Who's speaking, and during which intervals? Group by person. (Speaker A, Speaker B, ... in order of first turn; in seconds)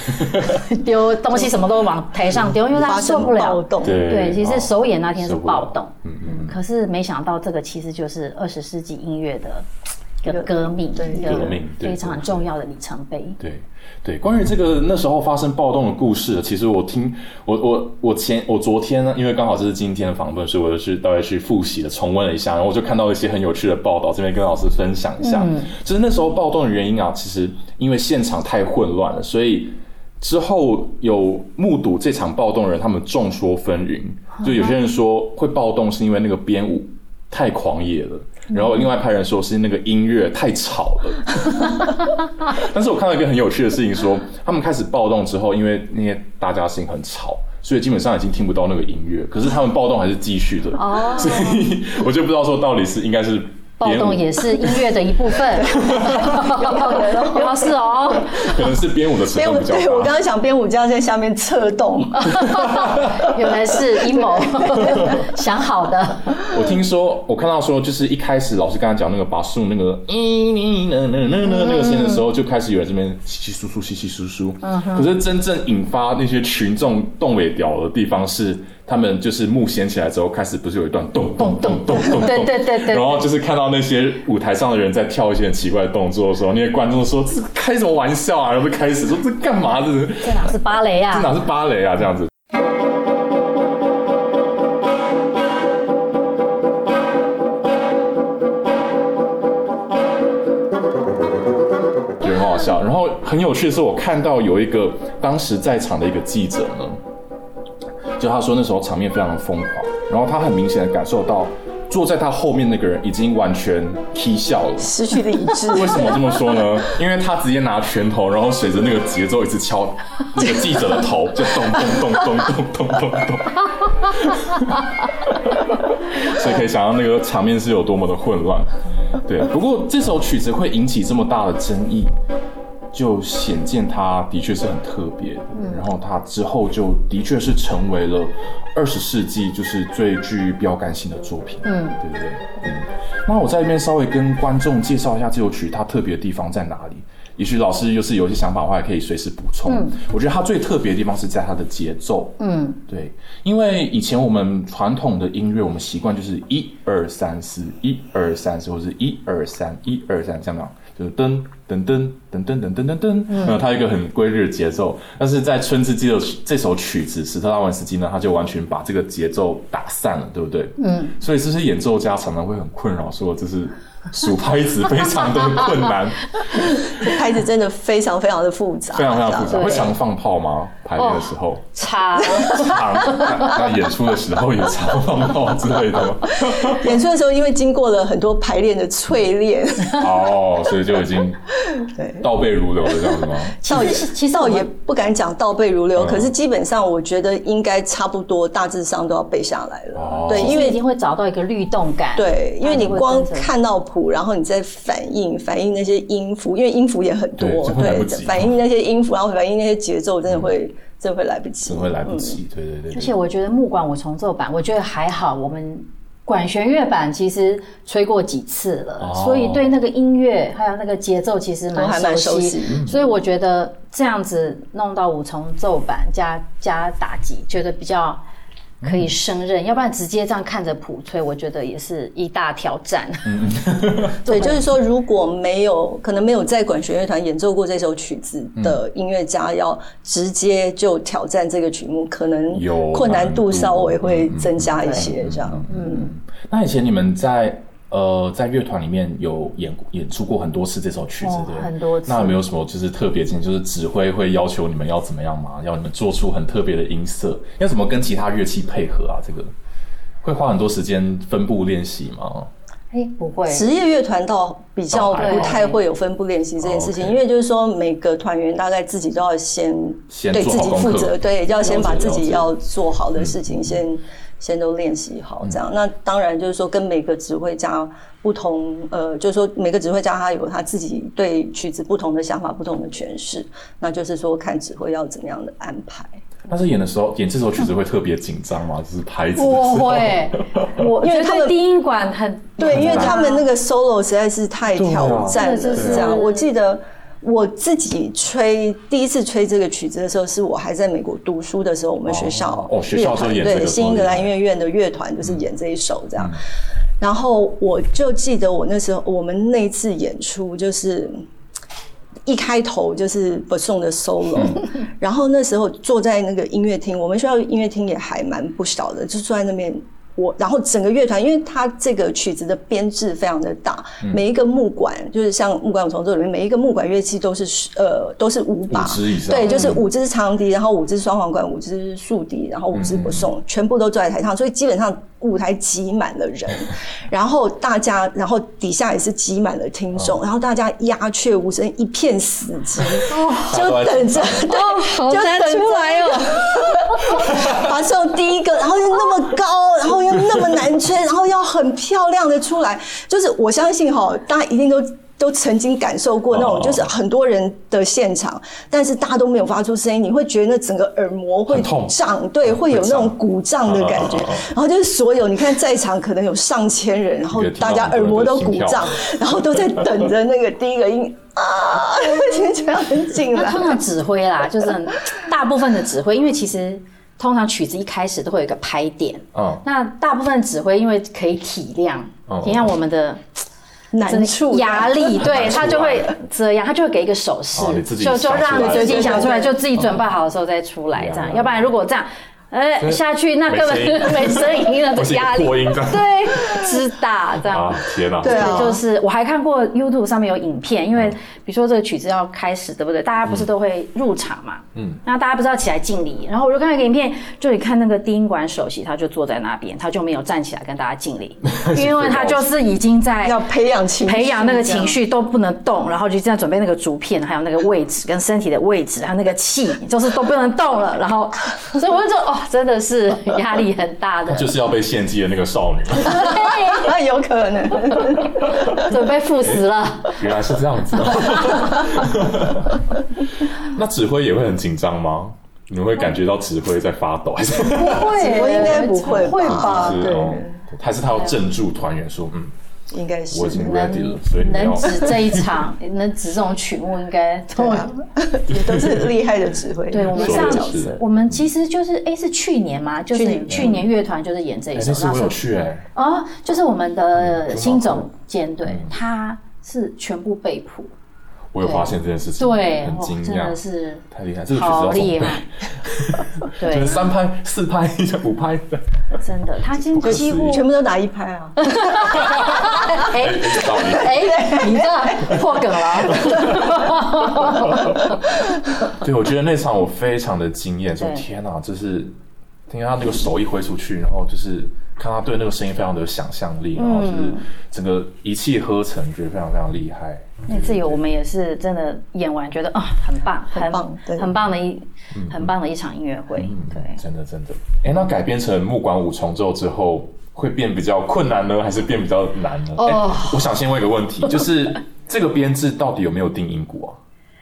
Speaker A: 0.1-0.6, 3.8-6.6, 11.2-12.5, 13.4-54.8, 55.6-56.5, 58.3-60.2, 62.3-63.2, 64.8-65.2, 66.5-90.5, 91.1-92.3, 102.2-107.0, 108.2-115.0, 115.7-132.1, 132.9-177.1, 178.9-181.7, 182.3-186.9, 189.9-191.4, 192.2-193.7, 195.9-196.3, 199.9-200.7, 207.4-208.6, 211.6-213.1, 219.0-219.7, 222.7-223.0, 228.8-229.1, 233.2-234.7, 242.5-259.5, 260.2-262.5, 264.9-265.6, 266.6-267.2, 270.1-272.5, 273.1-273.8, 286.5-290.8, 292.6-293.2, 294.7-296.2, 302.1-304.3, 314.4-314.6, 328.7-329.8, 332.7-333.3, 343.4-344.4, 347.2-347.6, 356.3-356.9, 361.5-364.5, 367.3-369.2, 379.3-379.6, 382.3-382.7, 385.2-386.1, 387.5-389.9, 390.9-391.7, 392.8-396.7, 397.5-398.8, 404.7-405.0, 411.4-412.4, 424.3-426.4, 429.4-432.8, 433.4-442.5, 443.3-445.5, 448.5-449.1, 450.1-451.4, 453.5-453.8, 454.7-455.9, 457.1-458.1, 458.6-458.9, 461.5-463.6, 464.1-469.1, 469.8-470.6, 472.0-474.4, 476.1-478.1, 478.9-482.1, 482.7-491.0, 495.1-495.5, 496.4-507.0
Speaker B: 0.2-9.7, 10.2-13.4, 25.2-25.7, 50.8-51.6, 53.8-58.6, 62.4-66.5, 71.5-72.2, 74.6-75.1, 81.4-83.2, 90.2-91.3, 135.5-135.8, 141.6-142.0, 149.7-150.0, 152.4-152.8, 163.3-163.6, 170.8-171.2, 179.5-179.9, 181.0-183.2, 193.6-194.7, 200.3-203.5, 212.9-228.2, 228.8-233.5, 234.2-234.6, 244.8-245.1, 245.7-246.1, 251.2-252.4, 262.9-263.7, 265.1-265.8, 289.4-293.4, 295.3-296.5, 343.1-343.6, 344.4-347.1, 373.3-383.2, 384.0-413.4, 414.0-424.5, 426.1-426.9, 428.6-430.2, 437.7-440.2, 443.5-447.9, 449.9-455.4, 455.9-460.9, 461.6-465.4, 466.6-467.0, 469.2-470.7, 471.6-477.9, 481.0-481.2, 486.8-487.4, 490.5-497.0, 502.8-503.5
Speaker C: 2.7-4.1, 10.2-11.6, 55.7-57.7, 59.3-62.9, 63.7-65.1, 114.8-116.2, 176.9-179.9, 186.4-190.3, 191.7-192.2, 193.1-200.8, 202.1-212.4, 221.7-222.8, 234.2-246.1, 263.5-286.2, 291.0-291.6, 292.6-306.3, 307.0-311.2, 312.2-373.8, 383.9-385.5, 388.4-389.6, 398.2-398.8, 413.2-415.0, 426.1-428.8, 437.9-440.6, 442.9-443.9, 447.6-451.0, 453.1-453.8, 470.0-472.0, 474.1-475.4, 493.5-494.3